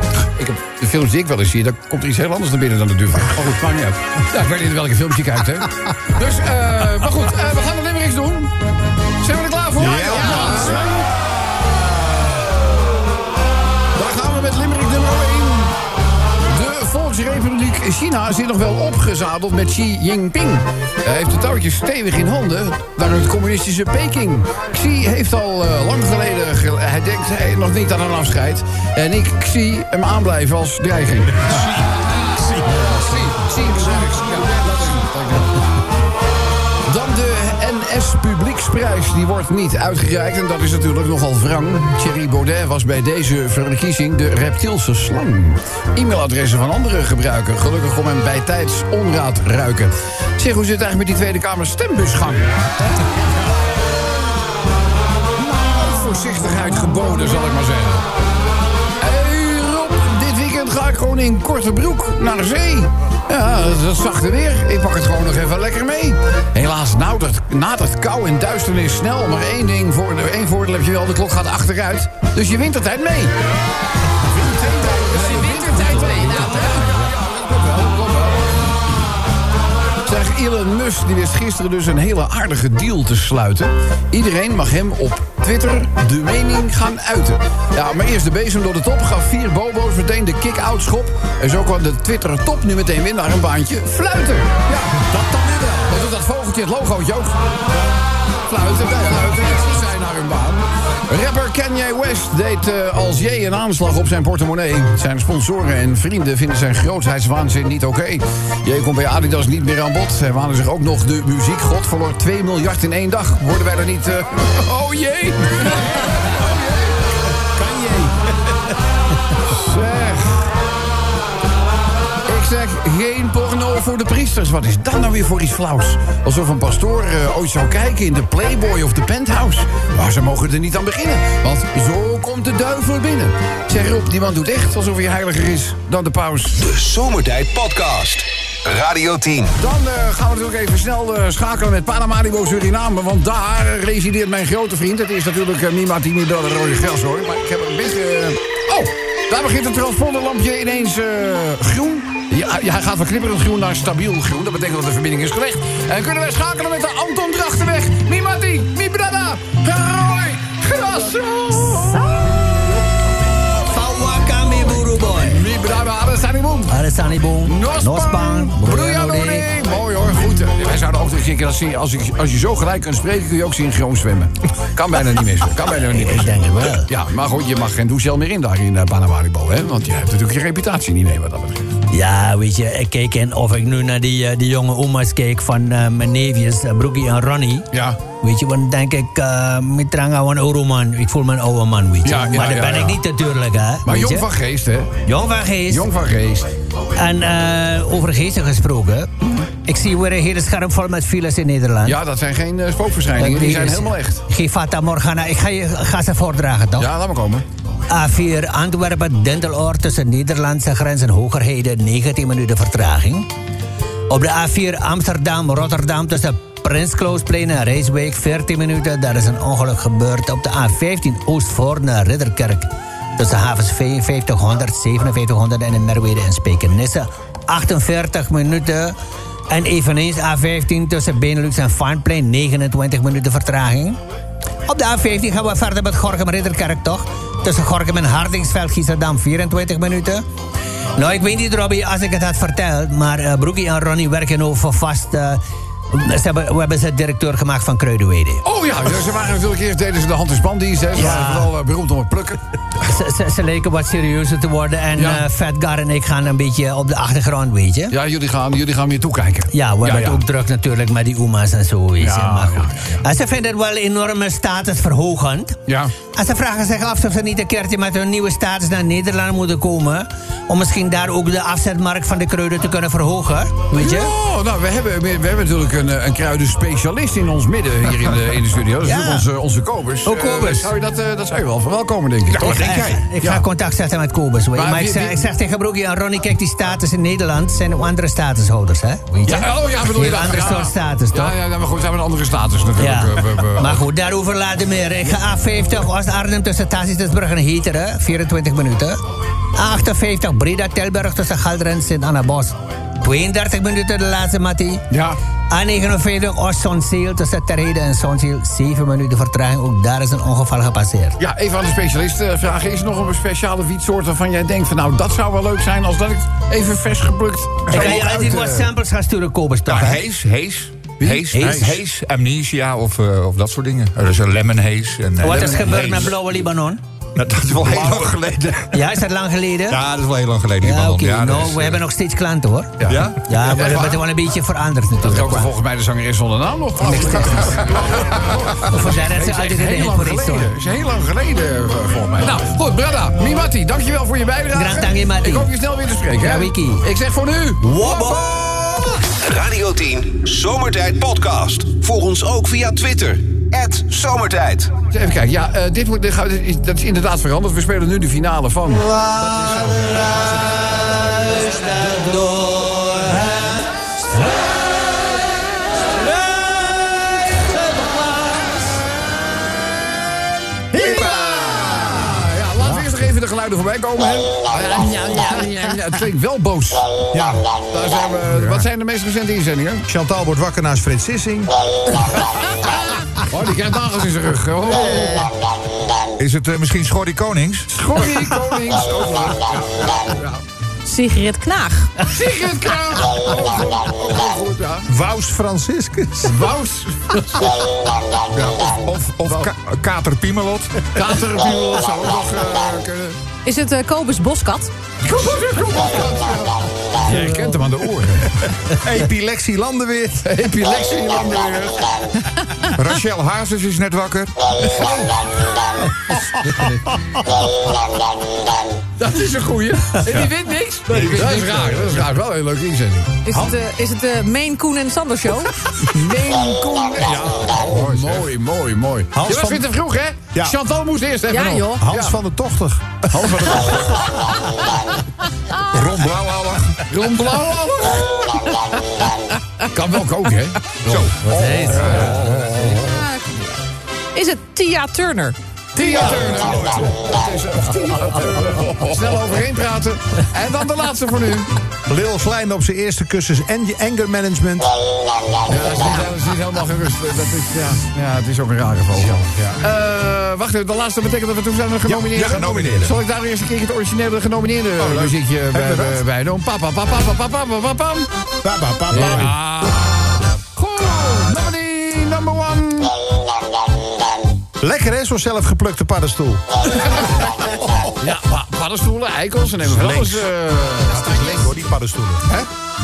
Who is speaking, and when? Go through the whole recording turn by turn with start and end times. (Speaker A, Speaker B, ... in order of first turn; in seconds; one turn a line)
Speaker A: 0.4-8.5
Speaker A: 9.2-12.5
Speaker B: 9.8-10.7
Speaker C: 9.8-11.1
Speaker A: 13.9-15.8
Speaker A: 16.5-35.6
Speaker A: 36.9-52.5
Speaker A: 55.4-58.0
Speaker A: 59.0-73.4
Speaker A: 74.3-79.0
Speaker D: 74.8-77.0
Speaker A: 80.1-97.4
Speaker A: 98.3-117.1
Speaker C: 117.6-118.2
Speaker A: 119.4-120.5
Speaker A: 122.3-136.6
Speaker E: 136.6-139.5
Speaker A: 139.6-162.5
Speaker F: 161.6-162.8
Speaker F: 163.6-165.4
Speaker A: 165.1-166.8
Speaker F: 166.7-169.5
Speaker A: 167.5-181.8
Speaker F: 175.9-176.9
Speaker F: 181.9-187.7
Speaker A: 187.7-188.0
Speaker F: 188.2-194.3
Speaker A: 192.0-193.0
Speaker A: 193.9-195.0
Speaker F: 195.0-195.9
Speaker A: 195.7-196.5
Speaker F: 196.9-202.0
Speaker A: 201.8-204.2
Speaker F: 203.2-206.9
Speaker A: 206.8-207.4
Speaker F: 207.9-213.3
Speaker F: 214.1-229.0
Speaker F: 229.5-234.0
Speaker F: 234.7-240.2
Speaker F: 241.0-248.4
Speaker A: 248.4-252.4
Speaker F: 250.9-251.5
Speaker F: 252.8-257.9
Speaker A: 255.0-255.2
Speaker A: 257.9-260.2
Speaker F: 259.5-265.6
Speaker A: 262.0-263.0
Speaker A: 265.7-265.9
Speaker F: 266.1-274.1
Speaker A: 273.8-282.7
Speaker F: 278.8-279.3
Speaker F: 280.1-280.7
Speaker B: 282.3-283.0
Speaker F: 282.4-291.4
Speaker A: 284.5-285.2
Speaker A: 289.3-293.8
Speaker F: 292.8-299.0
Speaker F: 299.6-304.8
Speaker A: 304.9-305.2
Speaker F: 305.5-311.2
Speaker A: 311.2-318.7
Speaker F: 317.7-320.0
Speaker B: 319.7-326.1
Speaker A: 321.0-321.5
Speaker F: 321.3-321.8
Speaker F: 325.2-326.8
Speaker B: 327.2-328.8
Speaker C: 327.6-328.3
Speaker F: 328.7-329.8
Speaker B: 329.7-331.8
Speaker F: 330.6-335.5
Speaker A: 332.8-334.0
Speaker B: 332.9-333.2
Speaker A: 335.0-348.4
Speaker F: 336.8-337.7
Speaker F: 338.6-340.5
Speaker F: 344.5-345.5
Speaker F: 346.2-346.8
Speaker E: 347.7-348.1
Speaker E: 349.0-354.7
Speaker A: 354.9-360.8
Speaker F: 361.1-363.6
Speaker A: 370.7-376.8
Speaker C: 377.1-377.5
Speaker A: 377.7-379.8
Speaker C: 378.4-378.6
Speaker C: 379.9-381.5
Speaker A: 382.6-385.3
Speaker B: 386.2-387.7
Speaker A: 387.7-390.4
Speaker D: 390.9-391.9
Speaker A: 392.1-394.9
Speaker C: 394.9-396.4
Speaker A: 396.2-397.5
Speaker B: 398.4-400.9
Speaker A: 400.9-403.2
Speaker D: 403.4-404.7
Speaker A: 405.1-408.5
Speaker C: 408.8-410.2
Speaker A: 410.2-412.1
Speaker B: 412.7-414.3
Speaker A: 414.6-415.3
Speaker A: 419.0-423.2
Speaker B: 420.9-421.8
Speaker D: 423.2-425.5
Speaker A: 425.8-432.2
Speaker B: 427.6-428.2
Speaker C: 429.1-429.6
Speaker D: 431.3-431.8
Speaker C: 431.8-433.4
Speaker A: 433.1-434.3
Speaker B: 435.7-436.8
Speaker A: 436.9-438.2
Speaker A: 439.7-442.8
Speaker B: 440.9-442.3
Speaker F: 441.3-442.5
Speaker D: 442.4-443.5
Speaker D: 444.1-445.4
Speaker A: 445.8-451.5
Speaker C: 451.9-454.8
Speaker A: 455.5-468.1
Speaker C: 459.2-459.6
Speaker C: 461.9-462.9
Speaker B: 462.2-462.9
Speaker C: 464.9-466.0
Speaker C: 468.4-469.4
Speaker A: 468.9-473.0
Speaker C: 474.6-476.4
Speaker A: 476.8-477.3
Speaker A: 477.8-481.6
Speaker C: 479.6-480.2
Speaker C: 480.9-482.4